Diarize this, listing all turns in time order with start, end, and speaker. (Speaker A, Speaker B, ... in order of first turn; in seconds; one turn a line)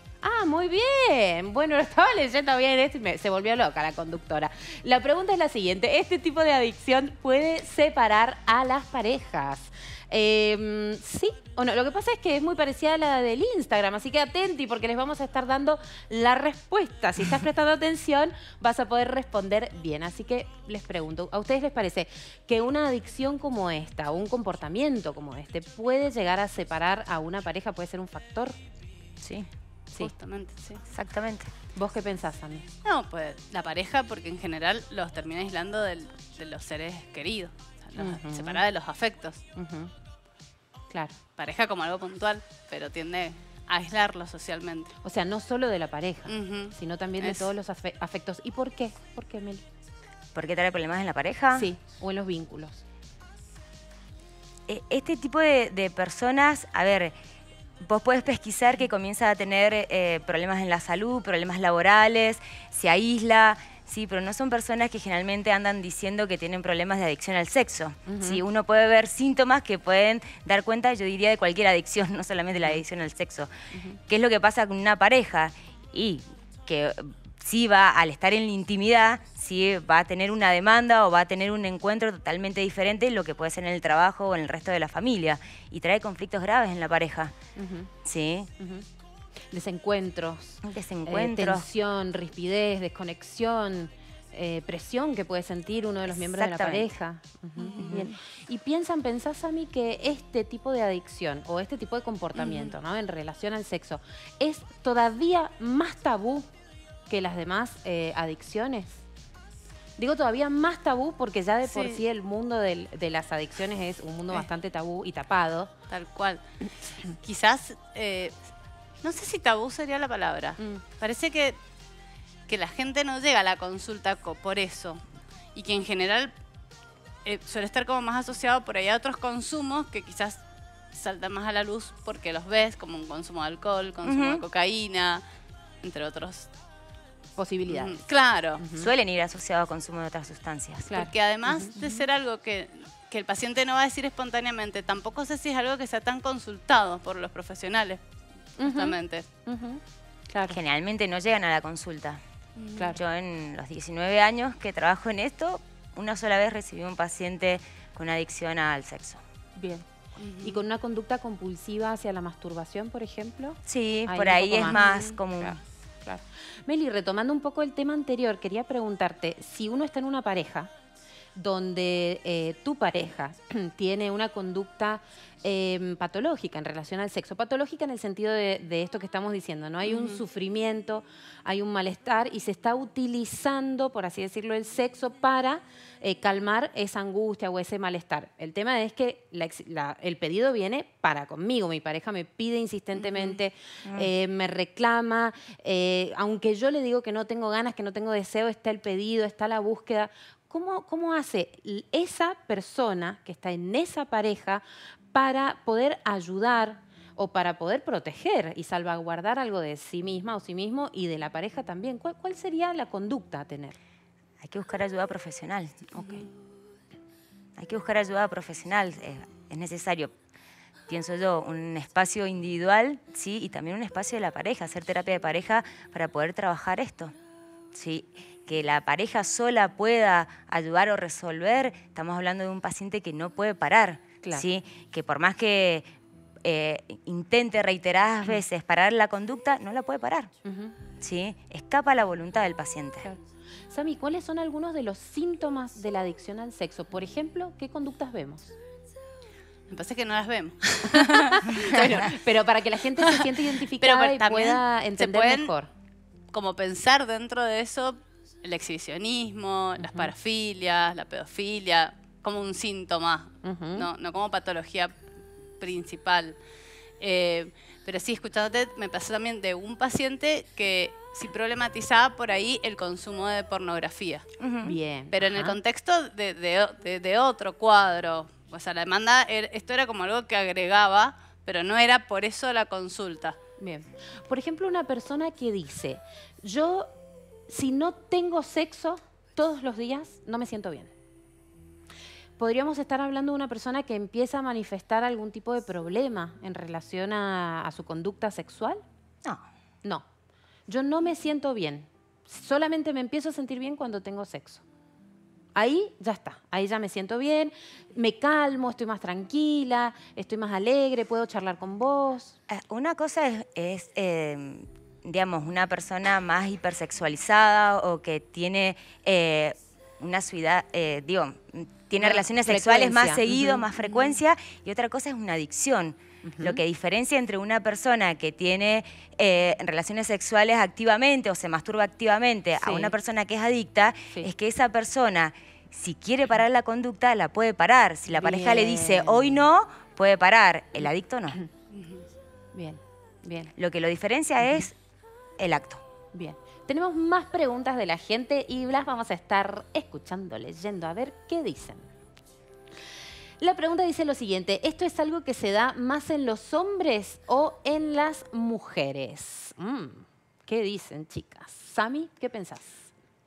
Speaker A: 0.2-28.6
Speaker B: 29.2-29.5
Speaker C: 30.0-30.8
Speaker B: 30.9-31.5
Speaker A: 31.8-32.7
Speaker C: 32.9-39.4
Speaker A: 38.0-38.6
Speaker A: 39.6-39.9
Speaker C: 41.4-45.0
Speaker A: 45.0-49.6
Speaker C: 46.3-47.5
Speaker B: 50.4-51.7
Speaker A: 51.5-52.8
Speaker B: 54.7-57.1
Speaker B: 57.8-73.5
Speaker A: 68.1-68.4
Speaker A: 73.7-74.0
Speaker B: 74.1-87.3
Speaker A: 87.6-87.9
Speaker B: 88.0-88.5
Speaker A: 88.6-88.8
Speaker A: 89.5-106.5
Speaker B: 90.6-91.7
Speaker B: 96.1-96.9
Speaker B: 97.8-98.1
Speaker C: 102.3-102.7
Speaker A: 107.1-109.0
Speaker A: 110.0-115.7
Speaker C: 111.7-112.0
Speaker C: 115.9-116.4
Speaker C: 117.1-118.4
Speaker C: 119.0-121.6
Speaker C: 122.5-125.0
Speaker C: 125.5-126.3
Speaker C: 127.2-130.4
Speaker C: 130.9-135.2
Speaker B: 134.0-134.4
Speaker C: 135.8-136.5
Speaker A: 137.4-138.1
Speaker C: 137.7-138.6
Speaker A: 138.6-138.9
Speaker B: 138.8-140.9
Speaker A: 140.9-141.8
Speaker C: 140.9-148.0
Speaker A: 148.6-150.6
Speaker C: 148.6-149.3
Speaker B: 150.4-152.2
Speaker C: 152.6-153.0
Speaker B: 152.9-159.2
Speaker A: 159.6-159.9
Speaker C: 160.2-160.6
Speaker A: 160.4-170.7
Speaker B: 163.7-165.6
Speaker A: 171.3-213.8
Speaker C: 179.8-180.2
Speaker C: 193.0-193.4
Speaker B: 193.8-194.1
Speaker B: 214.4-216.2
Speaker B: 217.6-220.1
Speaker B: 220.9-227.2
Speaker B: 227.7-235.9
Speaker B: 236.4-240.3
Speaker A: 240.4-240.8
Speaker B: 241.0-243.1
Speaker A: 243.7-248.5
Speaker C: 249.7-252.2
Speaker A: 250.9-255.7
Speaker C: 253.0-255.5
Speaker C: 256.3-265.0
Speaker A: 259.8-260.1
Speaker A: 263.4-263.9
Speaker C: 265.6-266.4
Speaker C: 267.0-274.3
Speaker B: 274.4-274.8
Speaker A: 274.6-275.6
Speaker C: 275.1-283.4
Speaker A: 283.6-286.9
Speaker A: 287.5-290.9
Speaker A: 292.4-298.8
Speaker A: 300.7-304.6
Speaker A: 305.6-312.4
Speaker B: 312.5-341.4
Speaker A: 322.0-324.0
Speaker A: 326.2-326.6
Speaker A: 332.6-332.9
Speaker A: 338.1-339.4
Speaker C: 341.7-342.0
Speaker A: 342.5-343.5
Speaker B: 343.6-344.7
Speaker A: 344.4-344.7
Speaker B: 345.4-345.8
Speaker A: 346.1-351.9
Speaker A: 353.4-362.9